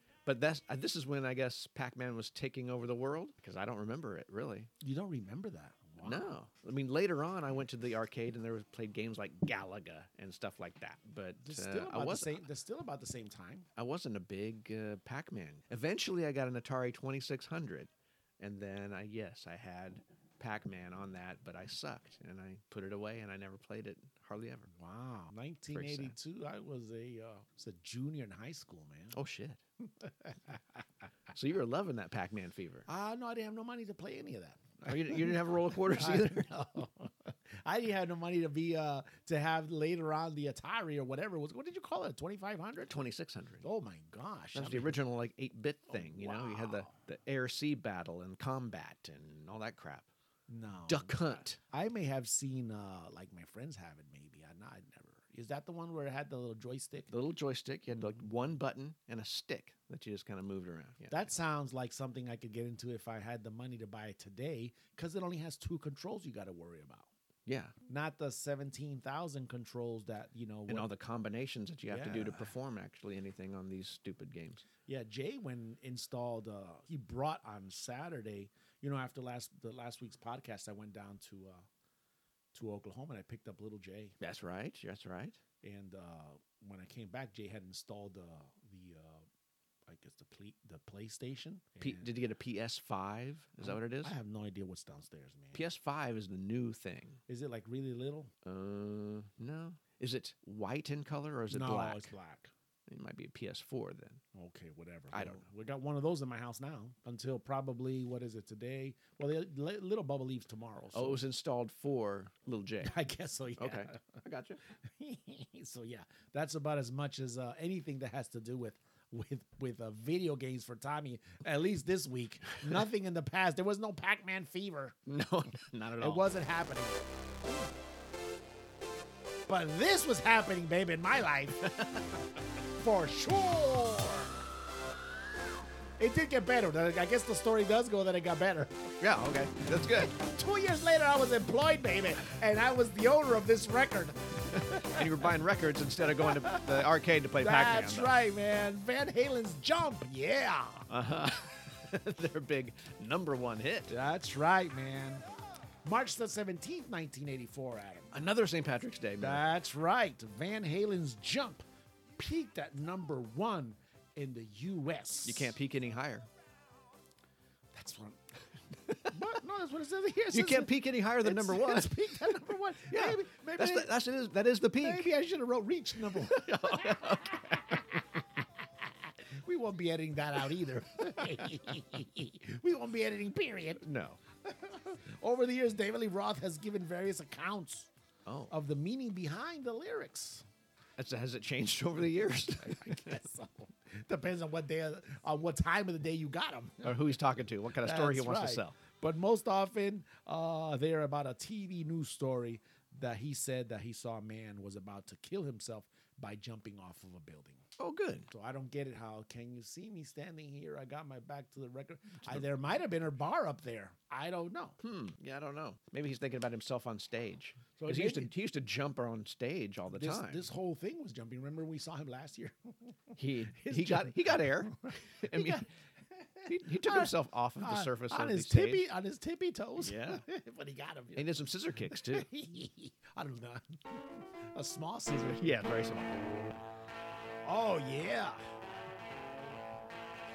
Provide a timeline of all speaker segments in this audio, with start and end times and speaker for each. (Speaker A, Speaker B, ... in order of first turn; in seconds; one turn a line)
Speaker A: 0.3-4.7
Speaker B: 4.8-6.3
Speaker A: 6.0-12.4
Speaker B: 11.4-13.7
Speaker A: 13.8-24.7
Speaker B: 24.7-29.2
Speaker A: 25.7-26.1
Speaker A: 29.1-29.6
Speaker B: 30.0-30.8
Speaker A: 31.3-32.9
Speaker B: 32.9-43.0
Speaker A: 34.9-36.5
Speaker A: 42.9-43.7
Speaker B: 43.6-45.0
Speaker A: 44.5-50.1
Speaker B: 45.9-46.9
Speaker B: 50.5-57.1
Speaker A: 50.9-51.6
Speaker A: 57.1-61.3
Speaker B: 61.1-67.1
Speaker A: 67.5-67.8
Speaker B: 67.9-70.9
Speaker A: 70.7-74.7
Speaker B: 71.9-72.5
Speaker B: 74.9-81.7
Speaker B: 82.5-84.2
Speaker A: 84.2-85.4
Speaker B: 85.6-89.3
Speaker B: 89.9-92.1
Speaker A: 91.8-94.1
Speaker B: 93.6-95.6
Speaker A: 95.5-97.2
Speaker B: 97.3-98.3
Speaker A: 98.5-102.1
Speaker B: 101.5-102.5
Speaker A: 102.9-104.2
Speaker B: 104.3-111.2
Speaker A: 105.1-105.4
Speaker A: 110.9-113.0
Speaker B: 112.8-114.0
Speaker A: 113.6-114.6
Speaker B: 114.8-125.0
Speaker A: 125.1-126.3
Speaker B: 126.0-127.0
Speaker B: 129.5-131.7
Speaker A: 131.7-132.1
Speaker B: 132.8-134.3
Speaker B: 136.0-138.9
Speaker A: 139.0-140.2
Speaker B: 139.9-145.3
Speaker A: 144.8-148.1
Speaker B: 146.1-150.9
Speaker A: 150.9-153.9
Speaker B: 153.9-155.2
Speaker B: 155.8-158.1
Speaker A: 158.1-159.4
Speaker B: 159.2-161.6
Speaker B: 162.2-165.6
Speaker A: 165.2-166.3
Speaker B: 167.7-168.2
Speaker B: 169.0-173.9
Speaker A: 170.3-175.1
Speaker B: 174.8-178.0
Speaker A: 176.3-177.9
Speaker B: 178.8-183.8
Speaker A: 183.8-184.2
Speaker B: 184.4-187.9
Speaker A: 188.3-188.5
Speaker B: 188.5-190.5
Speaker A: 191.0-193.1
Speaker B: 192.6-197.2
Speaker A: 196.8-198.8
Speaker B: 197.8-207.6
Speaker A: 207.8-208.3
Speaker B: 208.3-214.8
Speaker A: 214.8-220.4
Speaker B: 217.8-218.3
Speaker B: 219.9-235.5
Speaker A: 223.2-225.7
Speaker A: 226.5-228.9
Speaker A: 229.8-230.2
Speaker A: 231.2-232.3
Speaker A: 235.3-236.2
Speaker B: 237.4-238.4